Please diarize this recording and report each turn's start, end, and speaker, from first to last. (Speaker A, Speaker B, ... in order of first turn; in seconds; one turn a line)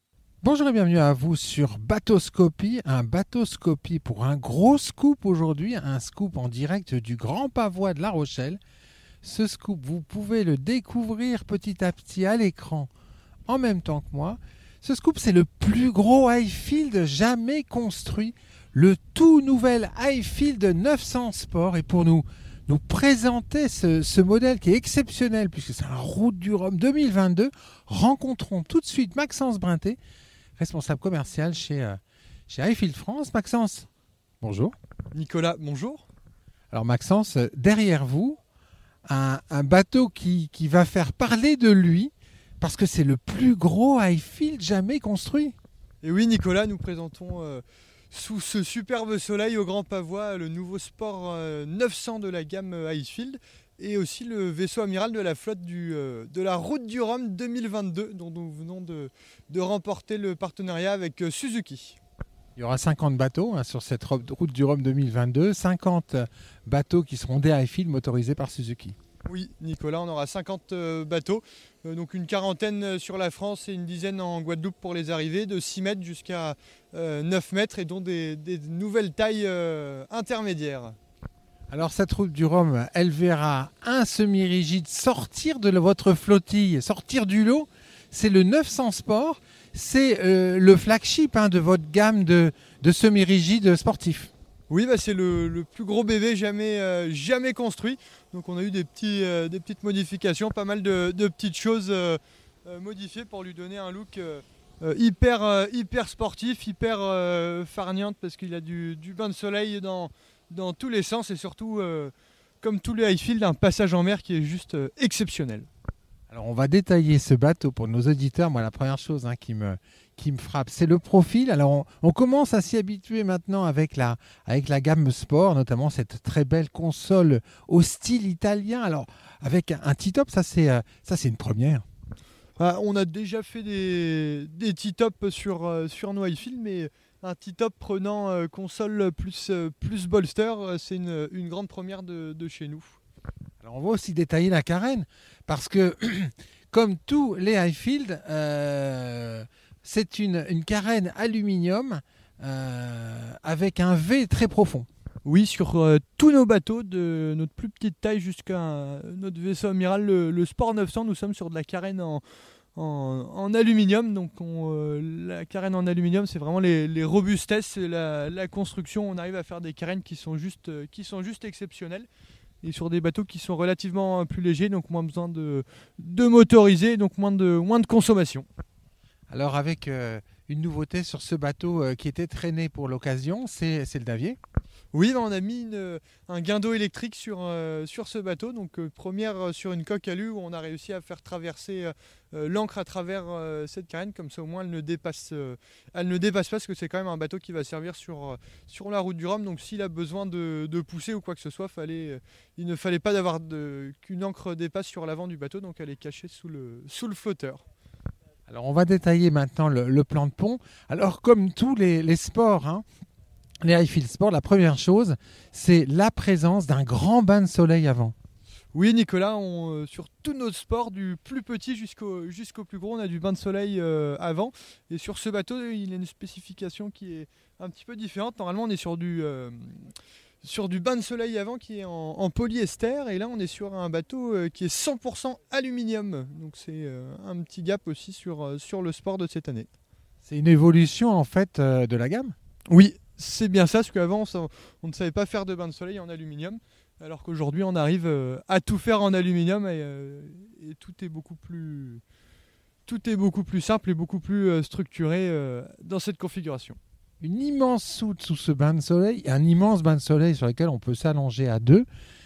Speaker A: 0.4-8.6
Speaker A: 9.2-12.9
Speaker A: 13.5-30.0
Speaker A: 30.6-33.9
Speaker A: 34.4-34.7
Speaker B: 35.1-36.0
Speaker A: 36.7-38.4
Speaker A: 39.0-45.5
Speaker B: 46.0-62.0
Speaker A: 62.5-68.9
Speaker B: 69.2-81.0
Speaker A: 81.7-94.3
Speaker B: 94.7-115.7
Speaker A: 116.3-131.8
Speaker B: 132.6-143.0
Speaker A: 143.6-154.9
Speaker B: 155.2-162.2
Speaker B: 162.8-172.1
Speaker B: 172.6-178.4
Speaker A: 179.3-184.4
Speaker B: 184.9-207.6
Speaker A: 208.5-212.8
Speaker A: 213.6-218.1
Speaker B: 218.7-229.9
Speaker B: 230.4-239.7
Speaker A: 240.2-242.3
Speaker B: 242.7-252.0
Speaker B: 252.8-256.8
Speaker A: 257.2-261.9